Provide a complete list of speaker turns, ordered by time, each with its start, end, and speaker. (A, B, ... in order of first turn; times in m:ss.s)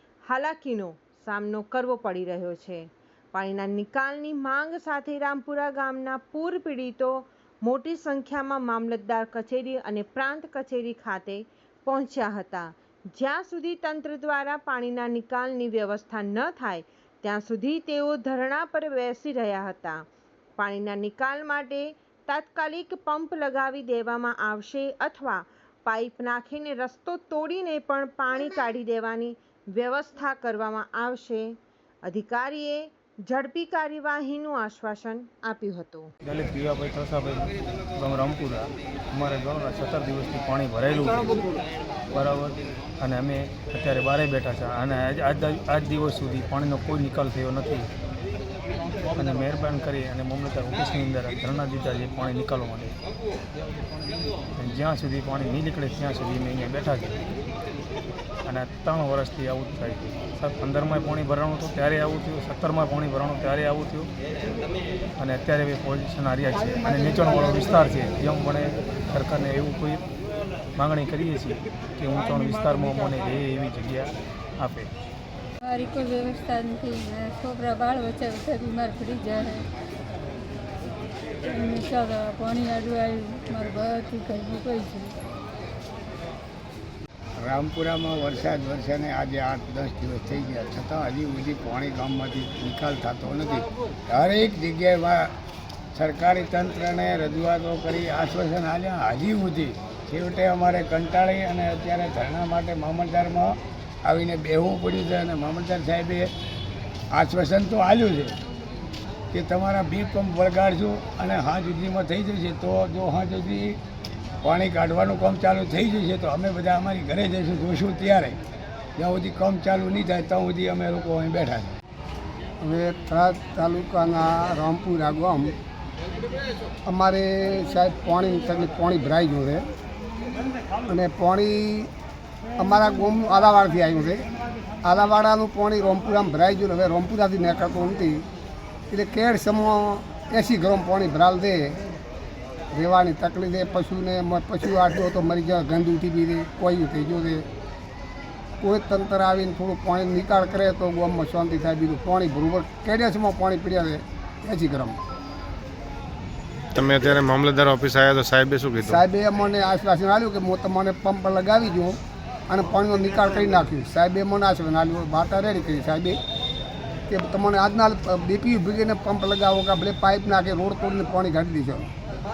0:00.3-0:20.0 A
0:20.6-0:31.5 A
0:32.0-0:36.1 A
0:36.2-0:41.4 B
0:42.1-0:47.9 B
0:49.2-0:53.0 B
0:54.6-0:57.2 B
0:58.4-1:04.1 B
1:05.2-1:10.0 B
1:10.8-1:14.9 B
1:15.6-1:19.7 C
1:21.4-1:25.2 C
1:27.4-1:35.3 D
1:35.9-1:46.3 D
1:47.1-1:48.4 D
1:49.3-1:53.8 D
1:54.4-1:58.4 D
1:59.0-2:01.7 D
2:02.6-2:05.6 E
2:06.9-2:09.7 E
2:10.9-2:11.9 E
2:12.6-2:14.2 E
2:14.8-2:18.2 E
2:18.9-2:21.8 E
2:22.7-2:27.4 E
2:28.6-2:35.0 E
2:36.8-2:39.0 F
2:38.8-2:42.0 E
2:42.5-2:46.2 E
2:47.1-2:51.9 E